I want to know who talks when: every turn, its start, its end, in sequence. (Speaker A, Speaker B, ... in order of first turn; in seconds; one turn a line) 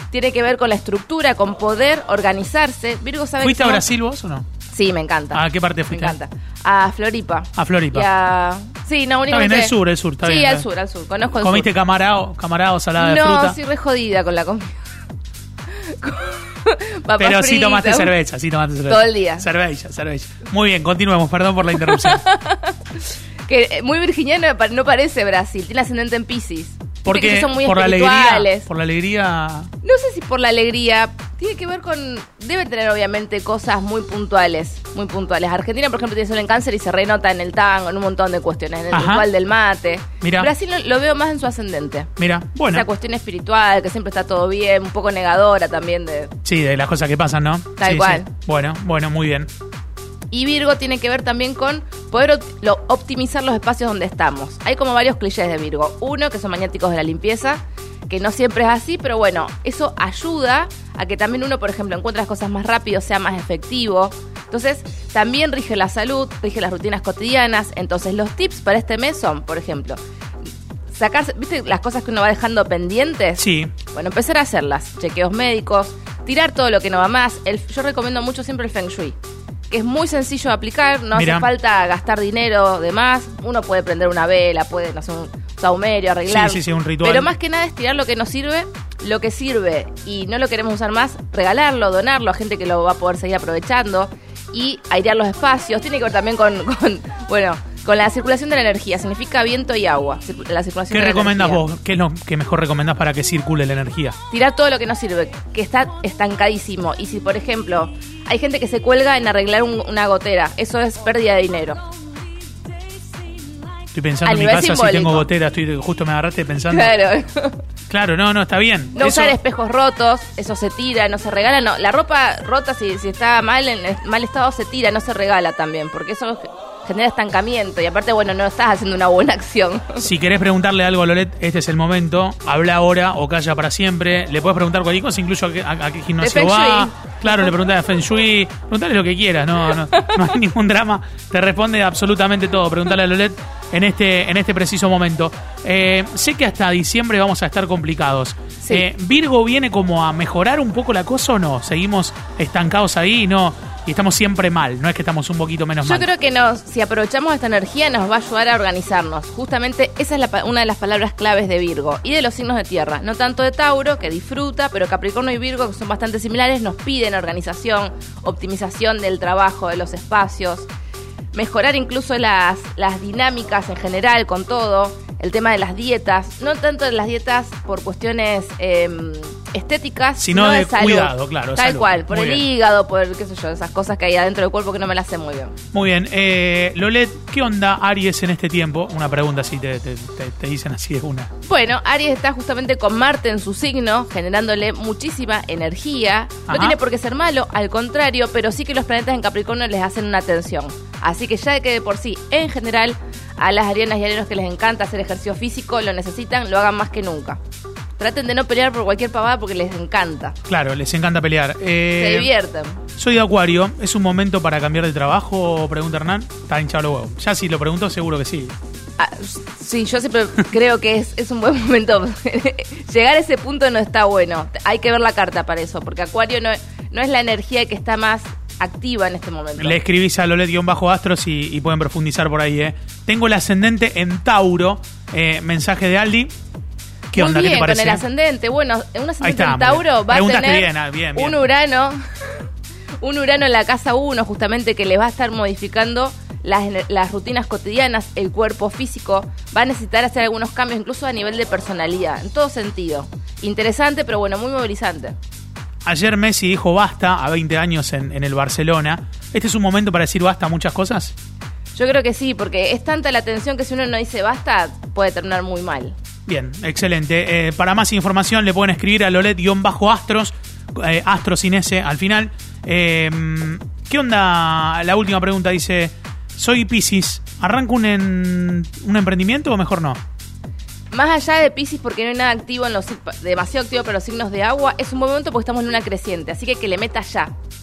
Speaker A: 0.1-3.9
Speaker B: 3.4-4.5
Speaker A: 4.7-11.7
Speaker B: 5.3-6.2
Speaker B: 7.5-8.1
Speaker B: 9.3-10.7
Speaker B: 11.4-13.6
Speaker A: 13.0-14.8
Speaker A: 15.7-18.1
Speaker B: 17.2-22.2
Speaker A: 18.9-19.4
Speaker A: 21.8-28.7
Speaker B: 27.0-29.7
Speaker A: 29.8-42.1
Speaker B: 38.9-39.2
Speaker B: 40.2-40.5
Speaker B: 42.2-42.9
Speaker A: 42.6-46.3
Speaker B: 46.4-49.5
Speaker A: 47.8-48.3
Speaker A: 50.3-70.0
Speaker A: 70.9-79.2
Speaker B: 73.4-73.7
Speaker A: 79.7-101.6
Speaker B: 81.1-81.5
Speaker B: 86.2-87.3
Speaker B: 100.9-104.2
Speaker A: 104.3-111.8
Speaker B: 113.9-116.9
Speaker A: 114.2-115.3
Speaker A: 116.7-117.6
Speaker B: 117.9-119.3
Speaker A: 118.9-130.1
Speaker B: 130.0-156.1
Speaker A: 136.2-136.9
Speaker A: 148.6-148.8
Speaker A: 155.8-170.7
Speaker A: 171.3-185.5
Speaker B: 180.2-182.4
Speaker B: 185.7-191.3
Speaker A: 191.4-207.4
Speaker B: 196.5-196.8
Speaker A: 208.0-210.3
Speaker B: 210.5-212.3
Speaker A: 211.9-212.8
Speaker B: 212.9-218.5
Speaker A: 219.0-229.8
Speaker B: 229.6-236.3
Speaker B: 237.1-238.0
Speaker A: 237.1-242.0
Speaker B: 239.2-241.4
Speaker A: 243.0-255.2
Speaker B: 255.8-261.1
Speaker A: 261.7-265.9
Speaker B: 266.2-280.0
Speaker A: 280.9-287.3